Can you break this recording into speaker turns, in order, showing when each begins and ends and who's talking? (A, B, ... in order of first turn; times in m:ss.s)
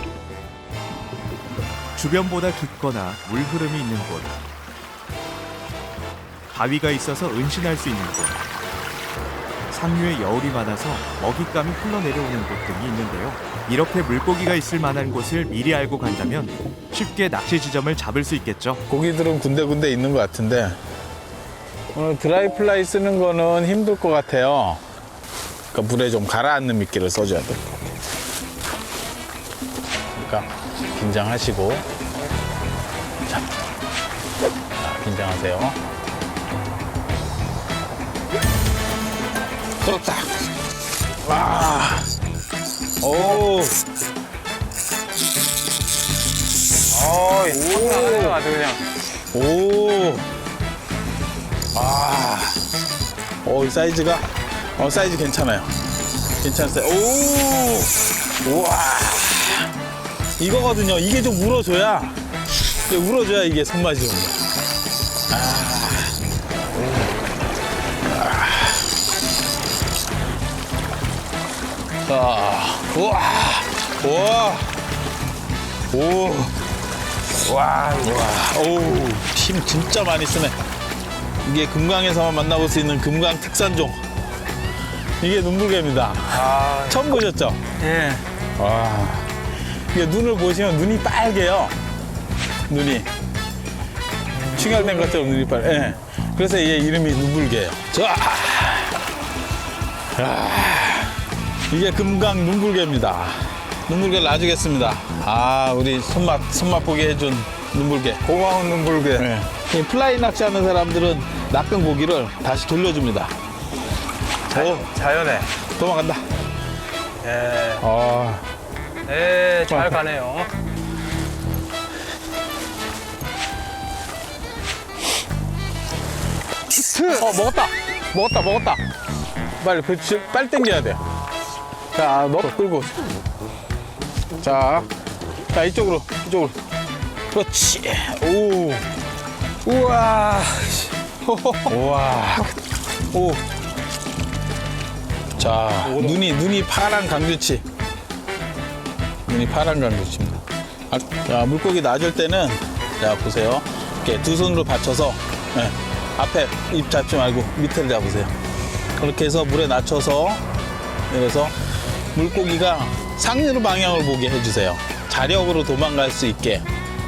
0:02.0-0:04.4 A
0:06.5-0:08.4 A
0:09.7-0:18.8 A
0:18.9-0:20.8 B
0:21.9-0:24.8 B
0:25.7-0:27.9 B
0:30.1-0:31.8 B
0:34.8-0:35.8 B
0:39.8-0:40.3 B
0:41.2-0:42.1 B
0:43.0-0:43.8 B
0:46.9-0:48.8 C
0:47.5-0:48.4 B
0:49.3-0:50.3 B
0:51.7-0:52.6 B
0:53.4-0:55.7 B
0:56.4-0:59.7 B
1:00.4-1:02.2 B
1:02.9-1:04.4 B
1:05.3-1:06.2 B
1:06.7-1:07.1 B
1:08.1-1:08.9 B
1:12.1-1:14.8 B
1:15.9-1:16.5 B
1:17.5-1:20.6 B
1:21.4-1:24.0 B
1:25.2-1:29.3 B
1:26.3-1:27.0 C
1:29.9-1:31.8 B
1:32.7-1:33.1 B
1:34.4-1:35.3 C
1:34.5-1:39.0 B
1:40.1-1:53.3 B
1:54.5-1:55.0 B
1:54.5-1:55.5 C
1:55.6-1:56.2 B
1:57.2-1:57.8 C
1:57.8-1:58.5 B
1:59.1-2:00.5 C
1:59.7-2:00.0 B
2:06.9-2:08.8 B
2:09.6-2:11.0 B
2:11.9-2:13.0 B
2:14.4-2:14.9 B
2:15.5-2:16.6 B
2:17.3-2:18.9 B
2:19.6-2:20.8 B
2:21.5-2:22.5 B
2:23.1-2:23.4 B
2:25.3-2:27.6 B
2:25.8-2:26.2 C
2:29.3-2:38.3 B
2:39.0-2:40.4 B
2:41.1-2:46.6 B